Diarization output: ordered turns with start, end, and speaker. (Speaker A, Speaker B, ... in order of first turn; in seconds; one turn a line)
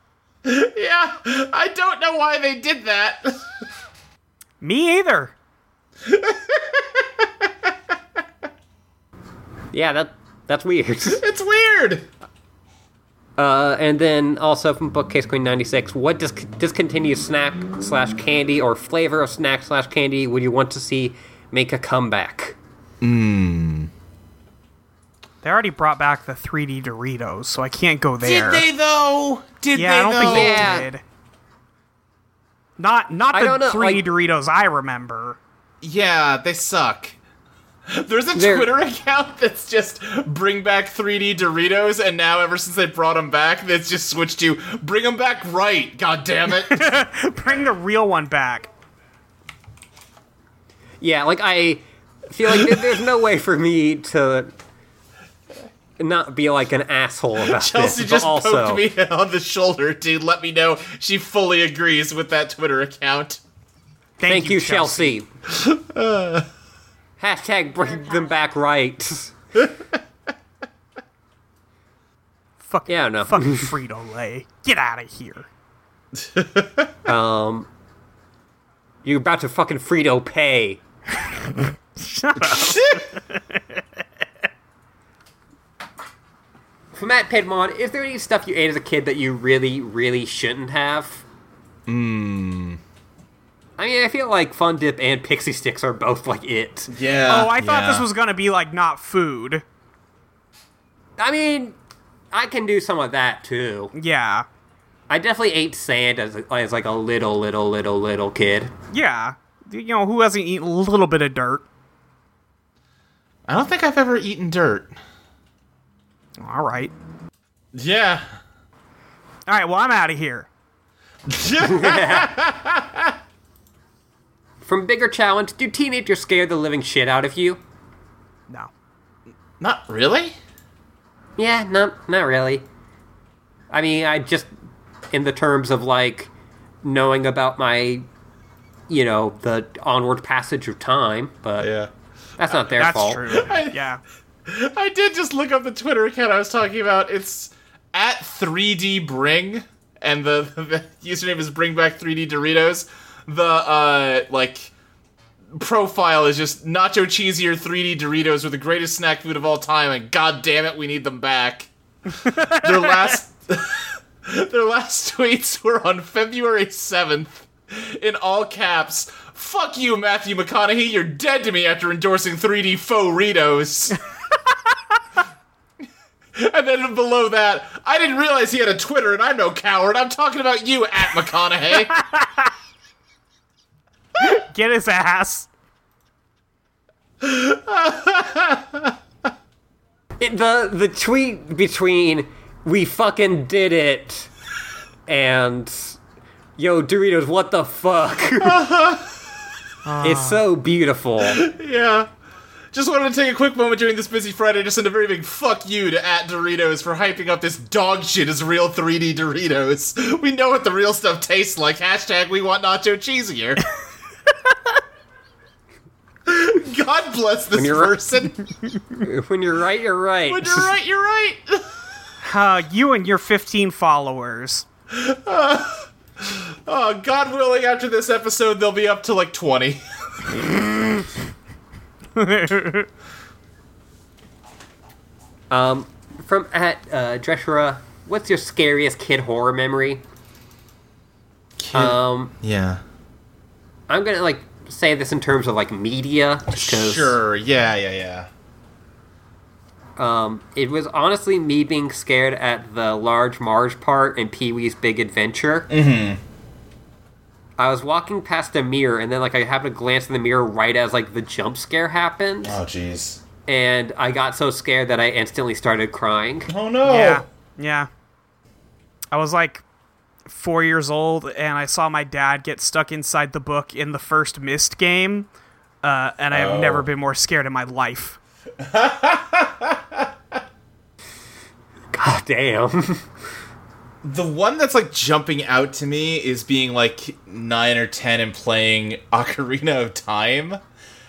Speaker A: 0.4-3.4
Speaker B: 4.6-5.3
Speaker A: 6.0-7.7
Speaker C: 9.7-11.2
Speaker A: 11.1-12.1
Speaker C: 13.4-22.6
Speaker A: 23.0-23.9
Speaker B: 25.4-28.6
Speaker A: 28.2-30.7
Speaker B: 29.7-31.0
Speaker C: 30.2-30.9
Speaker B: 32.8-35.4
Speaker C: 33.3-34.0
Speaker A: 35.8-37.1
Speaker A: 37.9-46.8
Speaker C: 38.3-38.7
Speaker B: 46.6-48.7
Speaker C: 51.0-54.5
Speaker C: 56.0-58.8
Speaker A: 57.4-63.4
Speaker B: 64.2-65.1
Speaker C: 64.2-65.3
Speaker A: 65.5-66.5
Speaker C: 67.2-69.3
Speaker B: 72.6-75.5
Speaker C: 72.9-73.7
Speaker A: 76.2-76.9
Speaker C: 77.0-77.7
Speaker C: 79.0-80.8
Speaker B: 81.9-83.6
Speaker A: 82.4-83.0
Speaker C: 86.9-91.2
Speaker A: 91.9-92.8
Speaker C: 93.8-96.9
Speaker A: 96.9-98.0
Speaker B: 97.3-99.6
Speaker C: 101.2-101.8
Speaker C: 102.3-103.9
Speaker B: 103.9-104.5
Speaker C: 105.1-108.7
Speaker B: 108.9-111.6
Speaker A: 113.5-114.9
Speaker B: 116.4-116.9
Speaker A: 117.7-118.2
Speaker B: 119.5-120.5
Speaker A: 121.3-123.2
Speaker C: 121.6-122.4
Speaker C: 124.6-127.6
Speaker A: 129.6-130.3
Speaker C: 131.4-132.6
Speaker C: 133.7-134.5
Speaker C: 135.1-136.3
Speaker C: 136.8-138.0
Speaker C: 138.9-141.7
Speaker A: 141.6-141.9
Speaker C: 142.4-143.3
Speaker A: 142.4-143.8
Speaker B: 142.8-144.0
Speaker A: 144.4-154.7
Speaker A: 155.5-161.7
Speaker B: 162.2-163.2
Speaker A: 162.2-174.0
Speaker A: 176.3-182.0
Speaker B: 181.8-182.5
Speaker B: 184.2-185.5
Speaker A: 187.2-188.9
Speaker C: 190.2-194.3
Speaker C: 195.1-196.0
Speaker C: 196.6-198.6
Speaker A: 198.4-199.2
Speaker B: 199.8-200.4
Speaker C: 200.0-201.4
Speaker A: 201.2-202.1
Speaker A: 202.7-213.6
Speaker A: 216.2-218.3
Speaker C: 217.5-217.9
Speaker C: 219.0-220.7
Speaker A: 220.3-221.7
Speaker B: 222.2-224.6
Speaker A: 224.9-230.4
Speaker B: 232.1-232.9
Speaker C: 235.5-240.0
Speaker A: 241.6-242.8
Speaker C: 241.7-242.3
Speaker C: 243.9-247.2
Speaker A: 246.5-248.3
Speaker C: 250.0-255.7
Speaker A: 255.7-256.2
Speaker C: 257.6-262.6
Speaker A: 262.4-263.2
Speaker C: 263.5-266.5
Speaker A: 266.5-267.2
Speaker B: 266.8-267.9
Speaker B: 269.1-269.6
Speaker B: 270.3-275.3
Speaker B: 275.8-278.2
Speaker A: 276.3-276.9
Speaker A: 278.6-280.4
Speaker C: 281.9-283.0
Speaker A: 284.0-290.6